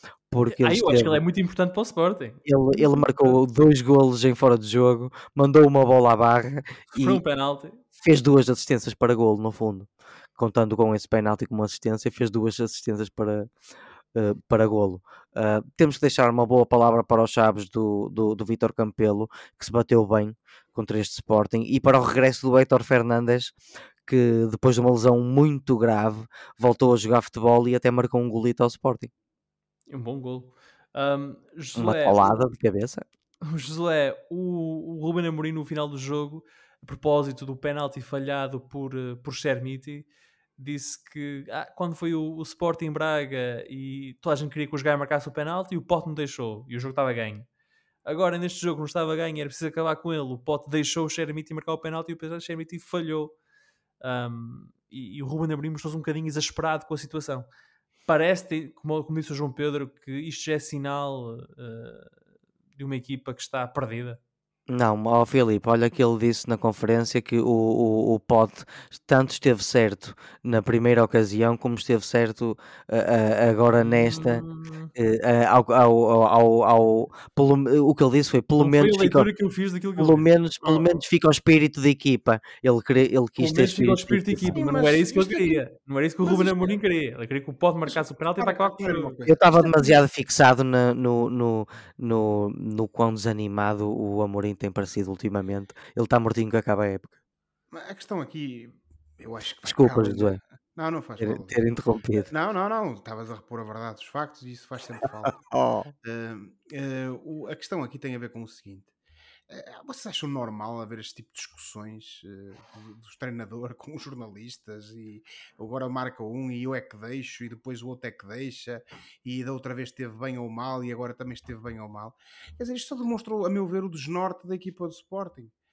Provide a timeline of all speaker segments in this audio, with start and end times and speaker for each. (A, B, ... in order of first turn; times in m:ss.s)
0:00.3-0:01.2 A
0:00.4-0:03.4 B
0:02.4-0:07.2 A
0:06.9-0:07.8 B
0:08.0-0:13.5 A
0:14.1-0:23.6 A
0:24.1-0:29.1 A
0:29.9-0:32.4 B
0:31.8-0:33.0 A
0:33.4-0:40.1 B
0:40.6-0:47.5 B
0:48.1-0:53.3 B
0:54.0-0:57.5 B
0:58.1-1:02.1 B
1:02.8-1:04.2 B
1:04.7-1:14.4 A
1:13.8-1:14.9 B
1:15.0-1:19.3 A
1:18.6-1:20.8 B
1:20.0-1:24.5 A
1:23.4-1:29.1 B
1:24.5-1:25.6 C
1:26.2-1:26.8 C
1:27.9-1:30.0 C
1:29.3-1:37.2 A
1:37.7-1:41.6 C
1:39.6-1:40.4 A
1:41.2-1:42.3 A
1:42.3-1:45.4 C
1:45.3-1:45.9 A
1:46.0-1:48.9 C
1:49.5-2:05.5 C